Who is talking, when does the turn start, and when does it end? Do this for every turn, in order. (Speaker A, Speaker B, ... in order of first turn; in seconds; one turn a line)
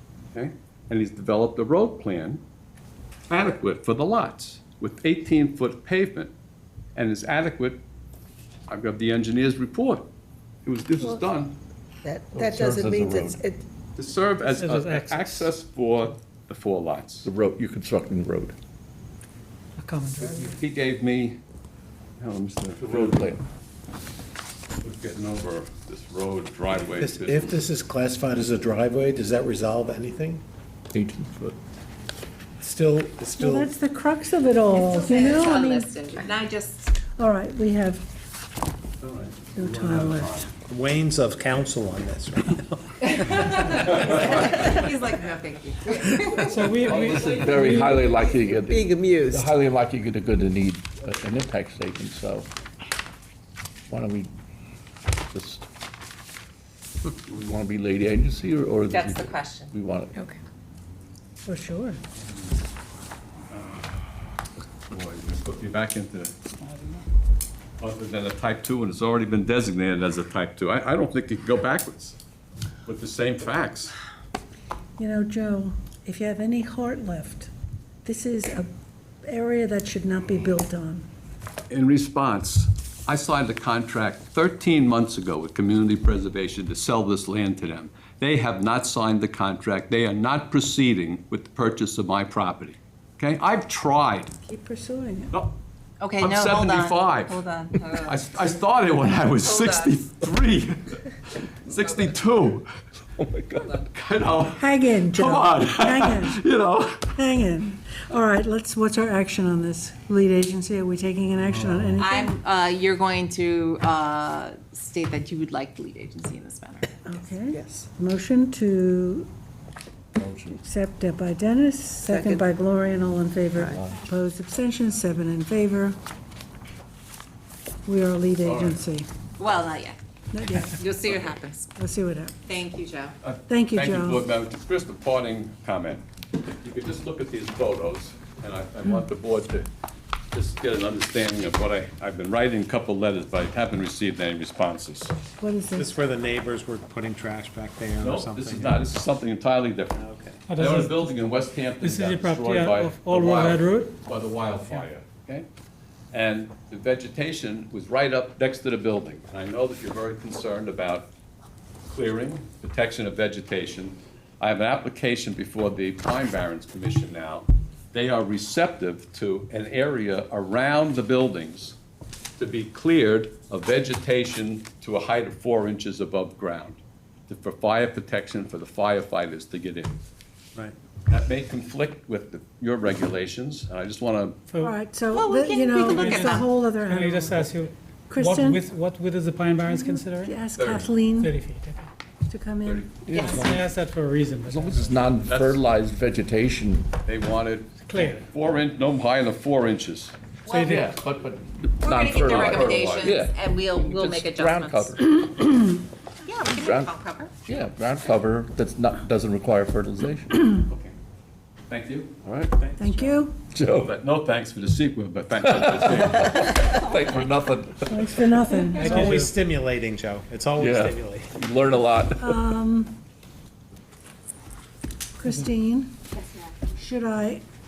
Speaker A: 0.3-2.4
Speaker A: 3.3-6.3
Speaker A: 6.9-7.8
Speaker A: 8.7-10.1
Speaker A: 10.7-11.6
Speaker B: 12.0-13.6
Speaker C: 12.3-13.4
Speaker A: 13.9-17.3
Speaker D: 14.4-15.5
Speaker C: 17.2-18.5
Speaker D: 19.8-20.6
Speaker A: 20.2-21.4
Speaker A: 22.2-23.2
Speaker C: 22.8-23.4
Speaker A: 24.8-27.6
Speaker E: 26.9-30.4
Speaker C: 30.9-31.6
Speaker E: 32.6-33.7
Speaker F: 33.3-35.9
Speaker G: 34.8-36.9
Speaker F: 37.1-38.0
Speaker A: 39.0-40.5
Speaker F: 39.5-40.5
Speaker E: 40.7-43.5
Speaker G: 43.3-46.5
Speaker D: 46.4-48.0
Speaker C: 46.9-52.5
Speaker B: 48.7-49.4
Speaker C: 53.9-54.3
Speaker C: 55.3-55.6
Speaker C: 57.2-60.1
Speaker G: 58.9-59.7
Speaker F: 61.5-62.0
Speaker A: 63.5-63.9
Speaker A: 64.9-66.3
Speaker D: 66.6-67.0
Speaker A: 67.8-72.2
Speaker A: 72.8-73.9
Speaker F: 75.0-77.5
Speaker F: 78.0-78.7
Speaker F: 79.2-81.0
Speaker A: 81.7-94.3
Speaker F: 94.4-95.3
Speaker G: 96.0-98.4
Speaker A: 96.2-97.4
Speaker A: 97.9-102.7
Speaker G: 99.4-100.0
Speaker C: 103.2-103.7
Speaker A: 103.9-107.2
Speaker F: 104.6-106.4
Speaker F: 107.1-112.3
Speaker E: 111.6-112.0
Speaker G: 112.0-116.9
Speaker F: 117.0-119.3
Speaker C: 120.2-120.6
Speaker F: 120.5-126.0
Speaker B: 122.0-122.4
Speaker B: 123.6-123.8
Speaker C: 123.7-124.0
Speaker F: 127.8-129.1
Speaker A: 128.4-128.8
Speaker G: 129.4-130.0
Speaker F: 130.3-130.8
Speaker G: 130.6-131.7
Speaker F: 131.8-132.3
Speaker G: 132.4-133.1
Speaker A: 133.2-136.0
Speaker F: 133.5-134.3
Speaker A: 136.6-139.7
Speaker A: 140.3-145.1
Speaker F: 145.4-146.0
Speaker E: 145.8-148.8
Speaker A: 148.0-155.5
Speaker E: 149.9-150.4
Speaker D: 150.5-151.2
Speaker D: 151.8-153.9
Speaker A: 156.1-161.1
Speaker A: 161.9-171.8
Speaker A: 172.4-179.9
Speaker A: 181.1-184.4
Speaker D: 184.5-184.8
Speaker F: 184.6-187.6
Speaker G: 185.1-186.5
Speaker D: 185.9-190.4
Speaker F: 188.1-188.6
Speaker F: 189.6-191.4
Speaker A: 190.5-190.9
Speaker D: 191.2-191.9
Speaker F: 192.3-193.6
Speaker C: 193.0-193.6
Speaker G: 193.1-193.5
Speaker D: 193.3-195.0
Speaker C: 194.4-196.9
Speaker A: 195.2-195.6
Speaker A: 197.0-200.1
Speaker D: 197.9-198.2
Speaker D: 200.5-200.8
Speaker C: 200.5-205.6
Speaker G: 201.8-205.0
Speaker A: 202.2-203.1
Speaker G: 206.2-207.3
Speaker C: 206.4-210.5
Speaker A: 210.6-210.9
Speaker A: 211.7-212.1
Speaker C: 212.2-212.6
Speaker E: 212.6-213.2
Speaker F: 212.8-213.3
Speaker C: 213.5-213.9
Speaker A: 213.8-216.6
Speaker C: 215.4-218.6
Speaker F: 217.9-219.3
Speaker D: 218.7-219.4
Speaker E: 218.8-221.3
Speaker C: 220.5-222.6
Speaker F: 222.2-222.9
Speaker F: 225.2-225.9
Speaker F: 226.8-227.4